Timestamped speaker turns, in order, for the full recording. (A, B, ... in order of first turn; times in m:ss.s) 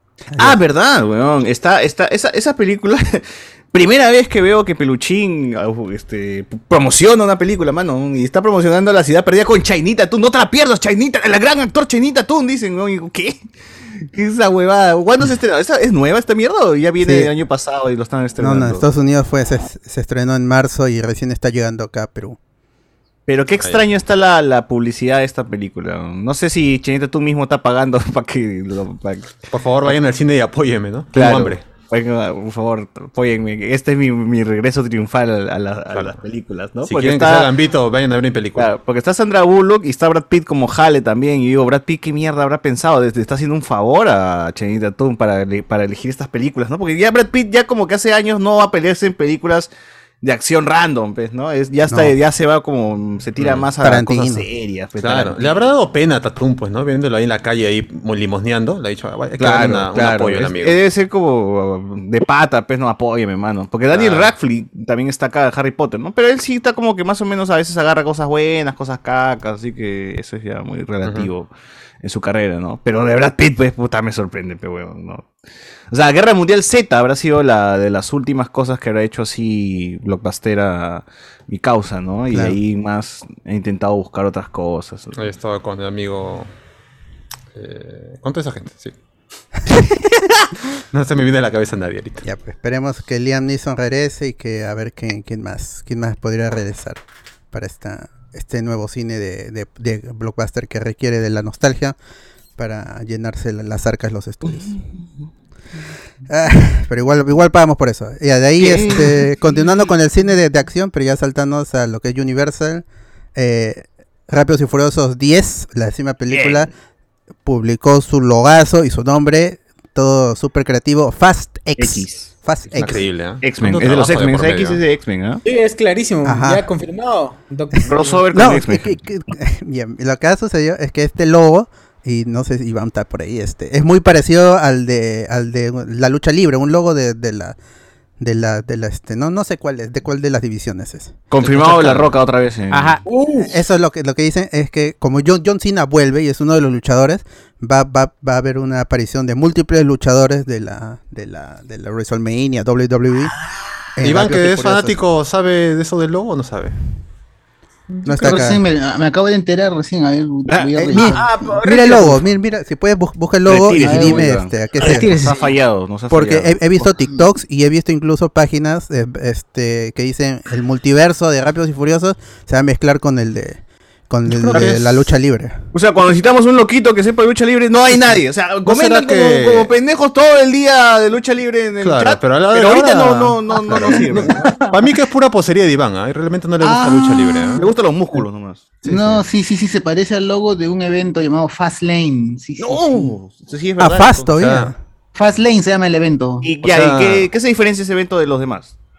0:00.3-0:00.6 A
0:00.4-0:13.5 B
0:14.0-0:18.9 B
0:17.0-0:17.3 A
0:18.4-0:22.4 A
0:23.3-0:29.9 B
0:29.5-0:31.7 C
0:31.1-0:37.5 B
0:35.9-0:36.2 C
0:36.8-0:38.7 C
0:38.6-0:49.7 B
0:50.2-0:55.6 B
0:51.9-0:52.1 A
0:53.4-0:53.7 C
0:53.8-0:54.5 A
0:55.0-1:00.8 C
0:59.4-1:11.5 B
1:03.9-1:04.3 C
1:11.0-1:11.3 C
1:12.0-1:15.3 B
1:15.9-1:25.2 B
1:22.3-1:22.6 A
1:25.2-1:26.5 C
1:27.5-1:28.9 C
1:30.9-1:32.2 C
1:32.2-1:37.0 A
1:37.5-1:42.0 A
1:42.6-1:44.8 A
1:44.5-1:45.3 B
1:46.3-1:56.7 A
1:48.6-1:49.3 B
1:56.3-1:56.7 B
1:57.4-2:03.1 A
2:01.8-2:02.3 B
2:02.8-2:04.8 C
2:03.4-2:05.4 B
2:05.4-2:08.2 D
2:06.2-2:06.7 A
2:07.9-2:09.0 B
2:08.3-2:17.6 A
2:18.2-2:21.3 A
2:21.3-2:23.0 B
2:21.4-2:22.1 C
2:22.7-2:23.6 D
2:23.4-2:33.4 A
2:34.0-2:35.0 A
2:34.0-2:36.8 C
2:37.9-2:38.6 D
2:38.0-2:38.6 A
2:38.2-2:41.6 E
2:40.5-2:40.8 B
2:40.8-2:45.1 A
2:40.9-2:42.2 D
2:43.5-2:46.9 B
2:43.8-2:44.2 E
2:44.8-2:45.4 D
2:46.1-2:55.6 A
2:54.5-2:55.1 C
2:55.7-3:04.6 B
2:58.6-2:59.7 C
3:01.8-3:07.7 C
3:03.9-3:04.7 E
3:06.6-3:07.7 E
3:07.6-3:08.8 B
3:08.8-3:09.2 C
3:08.9-3:13.2 E
3:12.6-3:14.4 B
3:13.8-3:14.8 A
3:14.4-3:14.7 C
3:15.2-3:16.5 E
3:16.4-3:18.7 B
3:16.6-3:17.3 C